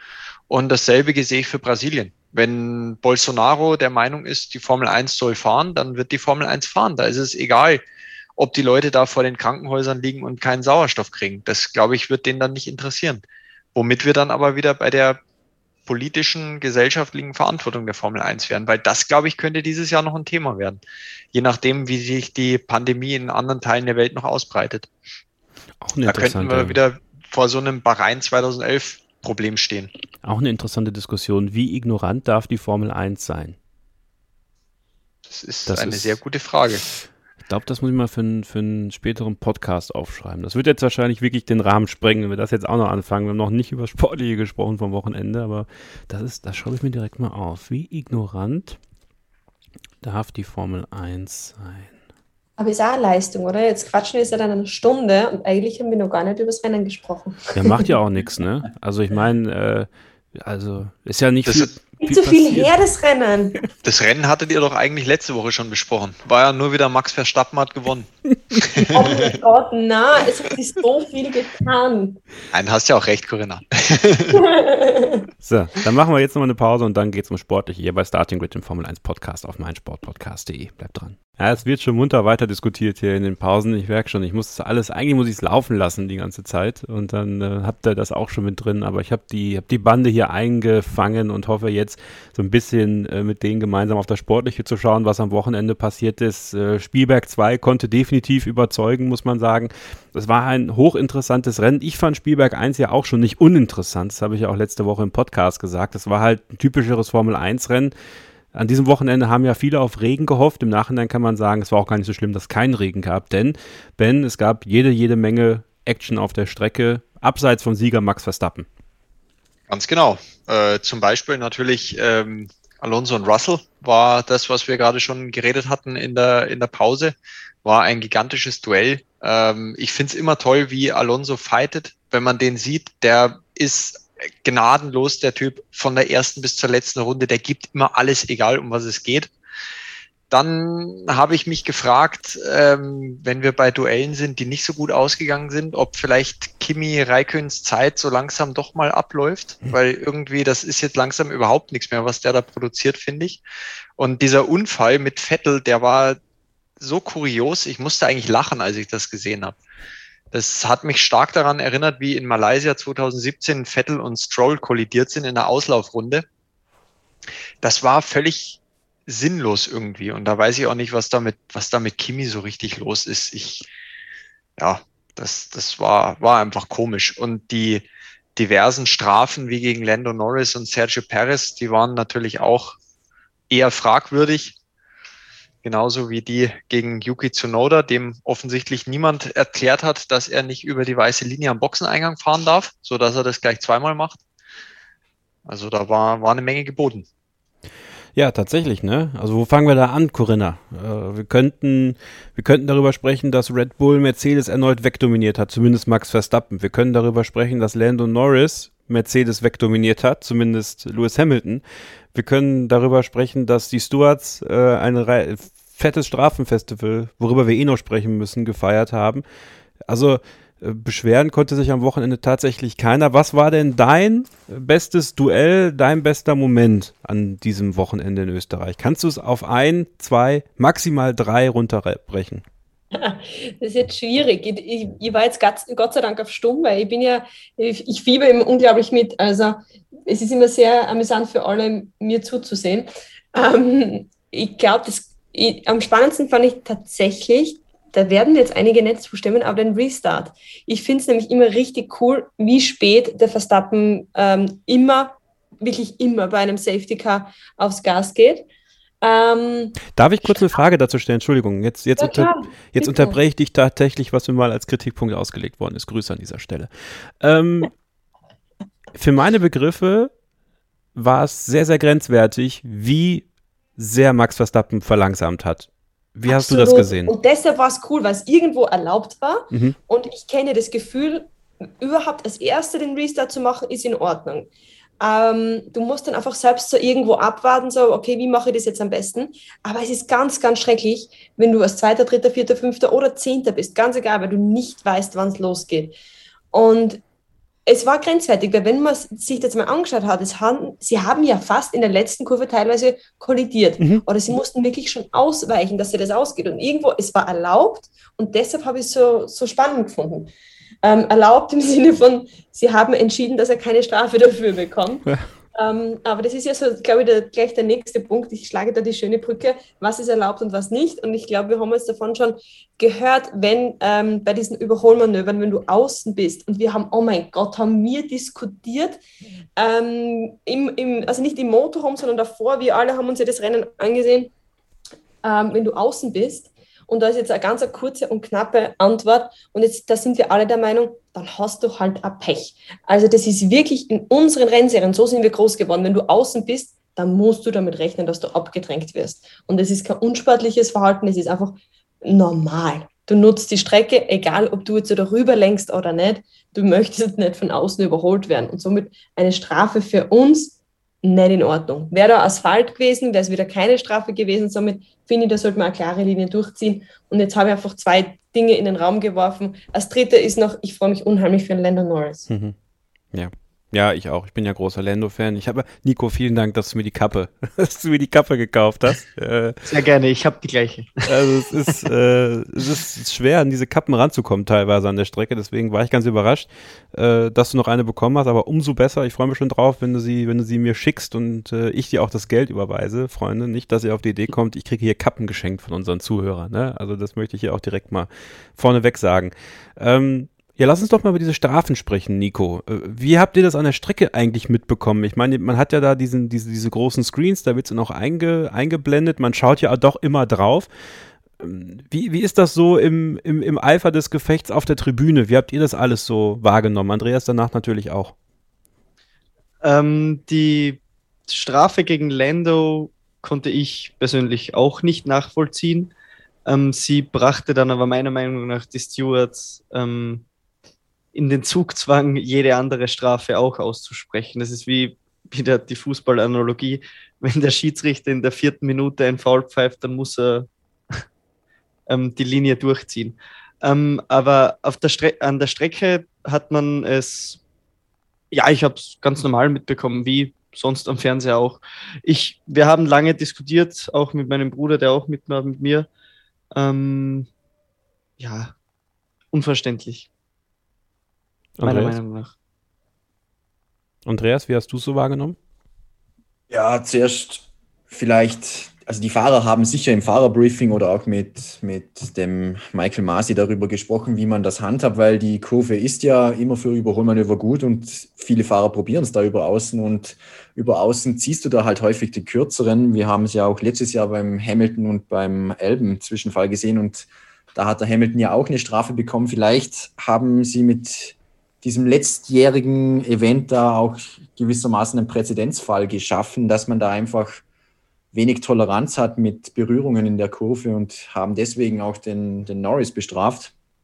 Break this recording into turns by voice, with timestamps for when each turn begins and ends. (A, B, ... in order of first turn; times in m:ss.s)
0:00.5-0:07.8 A
0:08.4-0:13.2 A
0:13.7-0:15.2 A
0:15.8-0:20.8 A
0:21.3-0:24.9 A
0:25.8-0:26.8 B
0:26.0-0:29.9 A
0:30.2-0:33.6 B
0:35.3-0:36.8 A
0:35.7-0:36.2 B
0:37.5-0:48.8 B
0:50.0-0:52.0 B
0:52.6-0:57.6 C
0:57.5-1:02.7 B
1:01.4-1:01.7 A
1:02.0-1:03.6 C
1:03.8-1:09.3 A
1:08.9-1:12.2 C
1:12.5-1:14.4 A
1:14.3-1:15.2 C
1:15.4-1:47.9 B
1:48.5-1:58.7 B
1:59.7-2:19.3 A
2:20.3-2:33.4 A
2:34.0-2:36.2 A
2:36.8-2:39.6 A
2:40.3-2:46.2 A
2:47.6-2:53.7 A
2:54.6-2:57.8 A
2:58.4-3:02.8 A
3:03.5-3:04.6 A
3:05.6-3:14.2 A
3:15.4-3:17.0 A
3:18.1-3:31.6 B
3:32.1-3:39.2 B
3:39.9-3:52.4 B
3:52.9-4:18.4 C
4:19.0-4:20.3 C
4:20.0-4:27.7 B
4:22.0-4:23.2 C
4:28.9-4:30.1 B
4:30.9-4:37.1 B
4:36.3-4:44.5 C
4:39.5-4:39.8 B
4:45.0-4:56.0 C
4:56.5-4:57.0 C
4:57.6-5:10.3 C
5:03.8-5:04.0 B
5:10.8-5:29.0 C
5:29.6-5:34.3 C
5:35.2-6:12.3 C
6:12.3-6:12.5 B
6:13.1-6:19.7 B
6:19.6-6:21.8 D
6:21.1-6:50.7 B
6:51.4-6:58.1 B
6:59.6-7:05.9 D
7:06.4-7:10.2 D
7:11.1-7:21.0 D
7:21.9-7:27.4 D
7:28.3-7:35.9 D
7:36.5-7:37.3 D
7:38.2-7:38.5 D
7:39.3-7:40.1 D
7:41.6-7:42.0 B
7:41.6-7:42.3 D
7:44.0-7:45.4 B
7:46.5-8:17.4 E
8:18.1-8:23.5 E